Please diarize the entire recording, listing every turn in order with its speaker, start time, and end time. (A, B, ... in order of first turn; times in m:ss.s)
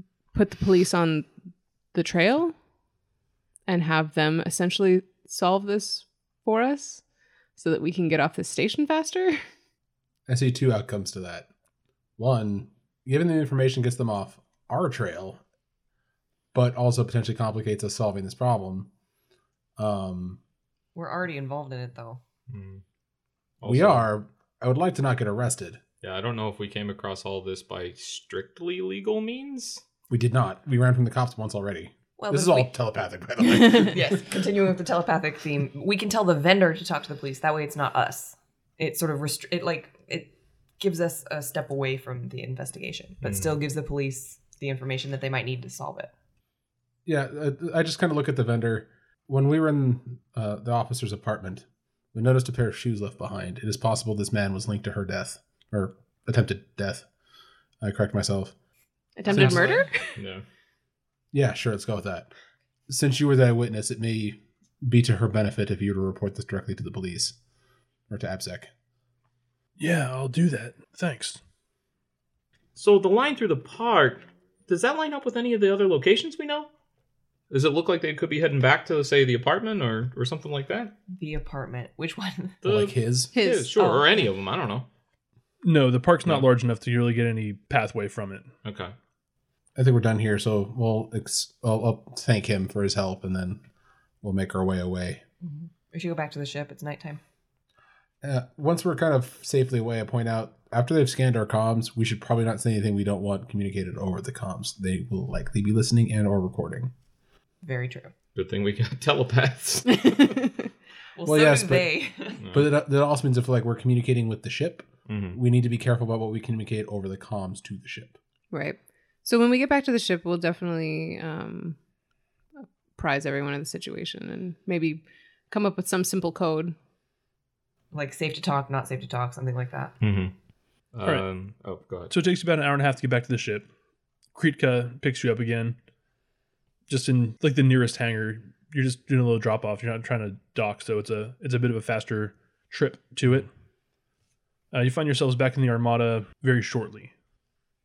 0:00.3-0:01.3 A
0:01.9-0:02.5 A
0:03.7-0:07.0 A
0:07.6-0:09.4 A
0:10.3-0:11.5 B
0:12.2-0:15.4 B
0:16.5-0:18.9 B
0:19.8-0:20.4 B
0:20.9-0:22.2 C
0:22.5-0:22.8 D
0:23.6-0:24.0 D
0:23.6-0:25.8 B
0:26.0-0:29.8 D
0:30.1-0:34.4 B
0:32.2-0:32.7 C
0:33.6-0:46.1 C
0:43.2-0:43.6 D
0:47.0-0:57.0 B
0:57.8-0:58.5 B
0:59.2-1:00.1 A
0:59.3-1:00.4 D
0:59.3-1:00.1 C
0:59.3-0:59.7 B
1:01.3-1:02.3 B
1:02.9-1:07.4 B
1:08.1-1:08.7 B
1:09.8-1:11.4 E
1:12.8-1:16.7 D
1:17.5-1:20.9 D
1:21.1-1:22.6 C
1:22.6-1:24.9 D
1:22.6-1:23.3 B
1:23.3-1:23.8 A
1:23.7-1:24.3 C
1:25.6-1:28.5 E
1:28.6-1:28.9 D
1:29.8-1:33.6 B
1:34.2-1:35.2 B
1:35.4-1:37.2 C
1:38.2-1:46.9 B
1:47.6-1:48.1 C
1:48.3-1:50.4 D
1:50.0-1:50.5 A
1:51.2-1:52.4 C
1:51.2-1:51.9 B
1:52.4-1:52.7 D
1:52.5-1:58.2 B
1:55.1-1:55.4 D
1:58.5-2:01.8 A
2:03.0-2:06.7 A
2:07.9-2:09.9 C
2:10.0-2:10.3 D
2:10.9-2:12.1 D
2:12.1-2:13.7 E
2:14.3-2:15.8 E
2:16.9-2:23.5 E
2:24.7-2:27.1 E